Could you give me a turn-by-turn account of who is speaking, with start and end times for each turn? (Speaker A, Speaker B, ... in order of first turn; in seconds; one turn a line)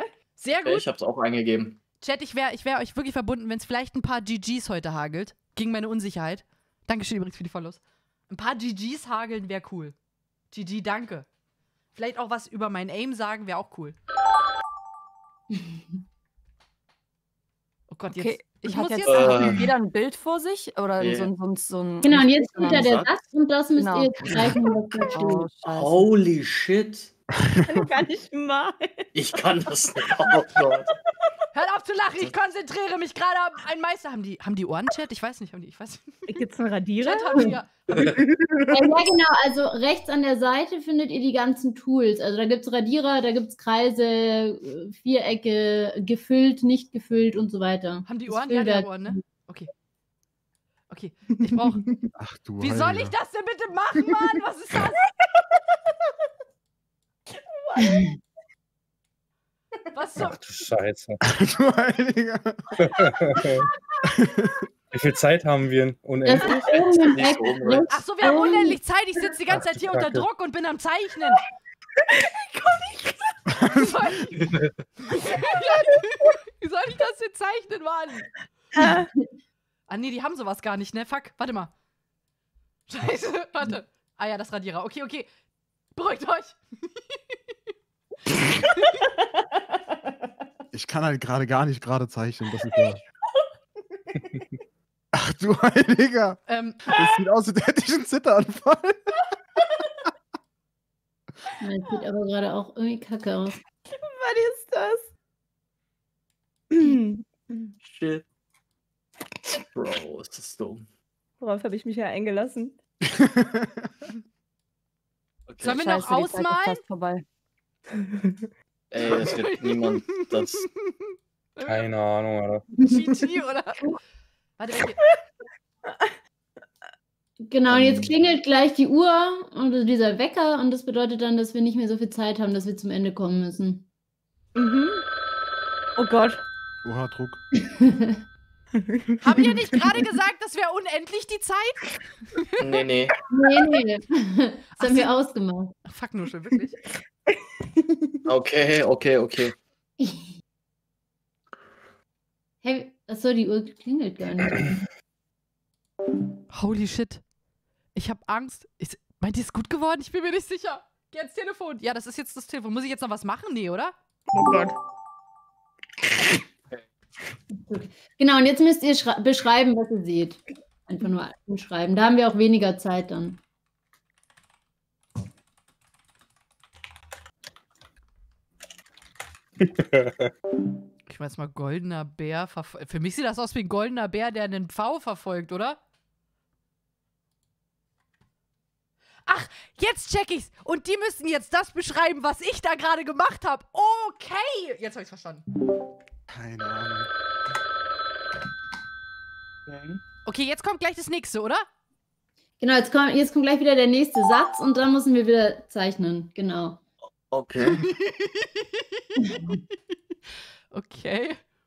Speaker A: 0.4-0.8
Speaker B: 0.6-1.8
Speaker A: 2.0-9.9
Speaker A: 10.5-11.3
Speaker A: 12.0-14.0
Speaker A: 17.9-19.6
Speaker C: 18.1-23.0
Speaker B: 19.1-19.7
Speaker B: 21.0-21.3
Speaker D: 22.0-25.5
Speaker B: 22.6-23.1
Speaker C: 23.8-26.1
Speaker B: 25.6-27.1
Speaker E: 27.5-27.9
Speaker F: 27.6-29.1
Speaker B: 29.1-30.9
Speaker A: 31.5-36.4
Speaker F: 36.3-37.6
Speaker A: 37.0-37.7
Speaker B: 37.9-38.2
Speaker D: 38.7-49.2
Speaker A: 48.1-49.7
Speaker A: 50.9-51.8
Speaker E: 52.2-53.1
Speaker A: 52.6-55.0
Speaker F: 57.3-58.2
Speaker A: 59.9-60.4
Speaker G: 60.2-61.2
Speaker E: 61.2-64.6
Speaker G: 62.8-63.7
Speaker G: 64.9-66.8
Speaker D: 66.2-68.8
Speaker B: 67.0-67.9
Speaker A: 67.9-71.4
Speaker G: 69.6-70.2
Speaker F: 72.1-73.4
Speaker A: 73.7-78.3
Speaker F: 78.8-79.1
Speaker A: 79.9-81.7
Speaker A: 82.9-85.3
Speaker A: 86.0-87.2
Speaker E: 90.7-93.0
Speaker F: 94.0-94.4
Speaker E: 95.1-99.2
Speaker A: 96.5-96.8
Speaker D: 101.6-103.6
Speaker F: 103.9-105.1
Speaker F: 106.7-107.7
Speaker B: 107.8-108.2
Speaker B: 109.6-110.9
Speaker F: 111.4-112.8
Speaker E: 113.1-113.9
Speaker B: 115.5-115.8
Speaker A: 115.6-116.8
Speaker C: 115.6-117.2
Speaker F: 118.0-118.4
Speaker B: 118.9-120.7
Speaker A: 119.1-120.6
Speaker A: 121.6-121.8
Speaker G: 121.7-122.7
Speaker A: 122.8-123.9
Speaker A: 124.6-125.0
Speaker F: 125.9-126.1
Speaker D: 127.5-133.9
Speaker B: 127.7-128.1
Speaker F: 134.6-135.0
Speaker F: 136.0-136.4
Speaker E: 136.8-137.4
Speaker D: 137.6-138.2
Speaker F: 138.8-139.2
Speaker A: 139.2-142.6
Speaker B: 142.6-143.2
Speaker D: 143.3-145.7
Speaker A: 144.8-145.1
Speaker A: 145.8-146.8
Speaker F: 147.3-148.2
Speaker B: 148.2-149.6
Speaker D: 150.0-150.3
Speaker D: 152.6-154.8
Speaker A: 156.5-157.2
Speaker A: 157.9-163.9
Speaker F: 164.3-164.8
Speaker D: 167.6-173.4
Speaker G: 179.6-180.3
Speaker A: 181.1-185.8
Speaker A: 189.3-195.4
Speaker E: 196.3-197.1
Speaker B: 199.7-200.0
Speaker A: 200.2-201.7
Speaker D: 202.6-206.8
Speaker B: 207.3-207.8
Speaker A: 207.8-209.4
Speaker D: 209.2-209.6
Speaker A: 210.7-211.4